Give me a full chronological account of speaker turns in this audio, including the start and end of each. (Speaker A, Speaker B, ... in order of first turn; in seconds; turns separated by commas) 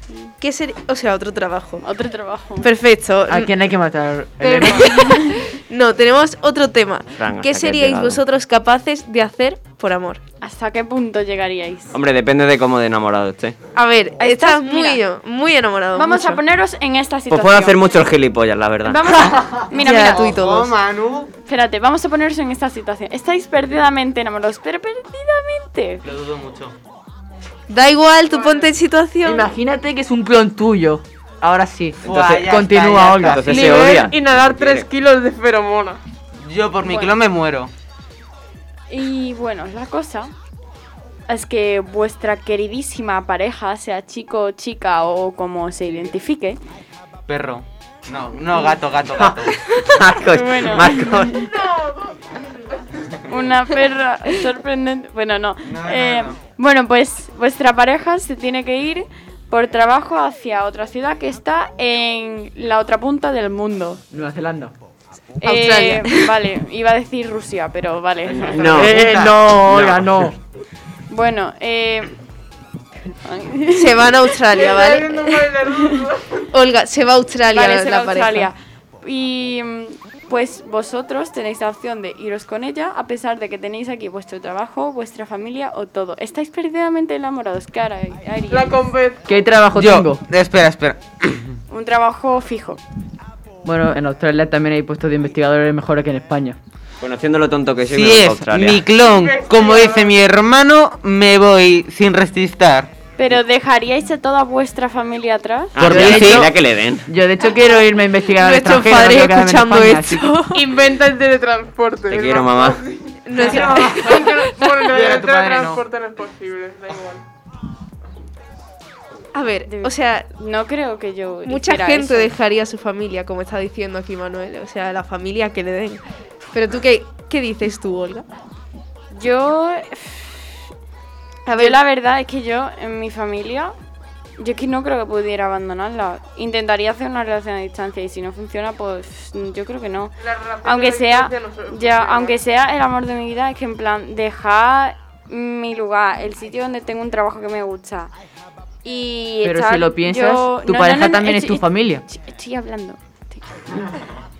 Speaker A: 0.4-1.9, Speaker B: 1.8-2.7, Speaker A: 2.6-3.5, Speaker C: 3.3-5.0, Speaker D: 4.4-5.2, Speaker A: 4.8-10.2, Speaker B: 5.0-5.3, Speaker E: 7.2-8.2, Speaker B: 10.4-11.9, Speaker E: 11.9-13.6, Speaker A: 13.7-16.4, Speaker B: 14.2-15.0, Speaker B: 15.9-17.8, Speaker E: 17.3-19.0, Speaker B: 18.8-20.3, Speaker F: 19.5-21.3, Speaker A: 19.7-20.7, Speaker B: 21.5-26.0, Speaker F: 26.0-26.7, Speaker A: 27.7-29.5, Speaker D: 28.3-28.7, Speaker C: 29.2-33.5, Speaker F: 32.0-33.9, Speaker E: 32.1-32.5, Speaker E: 33.1-34.9, Speaker D: 33.5-36.0, Speaker F: 36.4-37.7, Speaker B: 38.9-40.3, Speaker B: 41.3-46.6, Speaker F: 47.3-49.6, Speaker E: 49.2-51.4, Speaker B: 50.2-51.5, Speaker D: 51.6-52.0, Speaker B: 53.3-64.0, Speaker F: 55.6-56.4, Speaker C: 64.1-64.7, Speaker B: 65.4-68.8, Speaker A: 65.4-66.3, Speaker E: 68.3-70.2, Speaker F: 68.5-69.3, Speaker C: 68.7-70.3, Speaker B: 71.1-72.1, Speaker B: 73.2-74.4, Speaker A: 73.7-75.5, Speaker D: 74.6-76.3, Speaker B: 75.6-76.1, Speaker A: 76.5-78.5, Speaker B: 77.5-88.9, Speaker D: 88.5-89.2, Speaker C: 89.2-90.2, Speaker F: 89.7-91.6, Speaker B: 91.7-92.8, Speaker C: 93.6-96.6, Speaker E: 97.0-98.8, Speaker F: 97.9-102.9, Speaker D: 99.0-100.2, Speaker B: 103.2-105.8, Speaker E: 105.7-107.0, Speaker F: 105.8-106.5, Speaker C: 105.8-106.5, Speaker C: 107.1-110.3, Speaker A: 108.4-110.6, Speaker D: 110.5-117.2, Speaker E: 112.1-112.8, Speaker A: 113.2-114.5, Speaker F: 113.3-114.3, Speaker F: 114.8-115.8, Speaker A: 119.3-120.3, Speaker B: 119.7-122.3, Speaker A: 121.5-126.0, Speaker A: 126.5-128.2, Speaker B: 129.1-130.6, Speaker A: 131.4-131.8, Speaker B: 131.5-133.7, Speaker B: 134.4-148.1, Speaker D: 140.2-142.4, Speaker B: 148.8-153.6, Speaker C: 149.4-152.0